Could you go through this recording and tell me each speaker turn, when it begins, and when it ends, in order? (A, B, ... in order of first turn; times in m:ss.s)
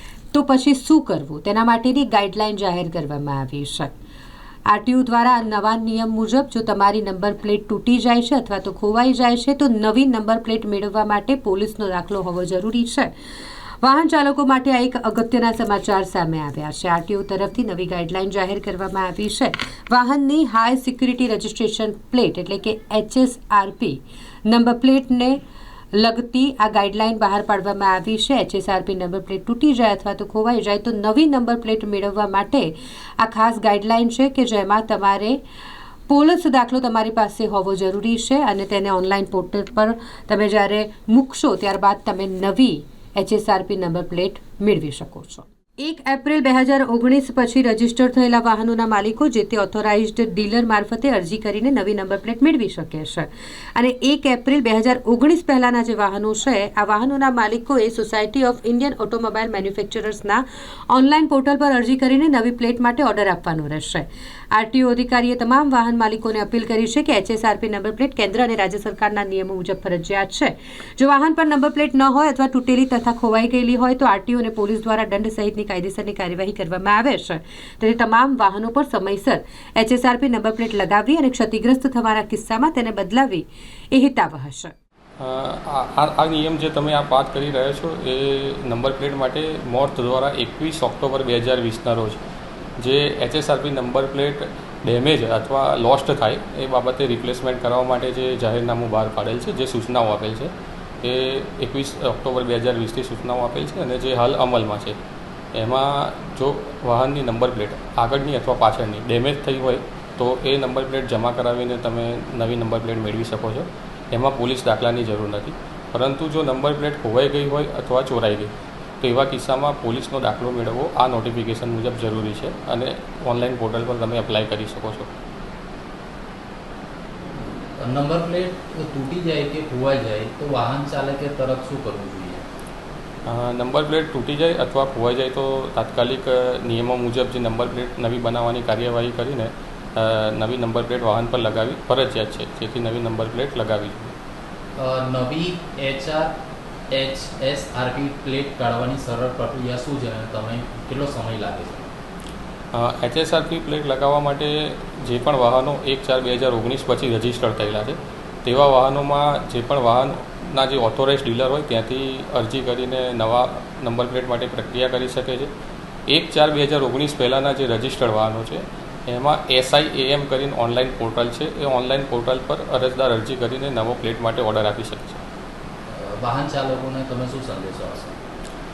0:00.3-0:03.9 A
0:04.7-0:13.1 A
0:13.8-0:25.4 A
0:25.9-0:35.4 A
0:36.1-1:24.7 A
1:25.2-1:32.2 B
1:32.8-1:45.0 B
1:45.6-2:05.1 B
2:07.4-2:12.4 C
2:13.3-2:24.1 B
2:24.8-2:26.3 C
2:26.9-2:31.9 C
2:32.7-2:45.5 B
2:46.1-2:55.2 B
2:55.9-2:58.2 C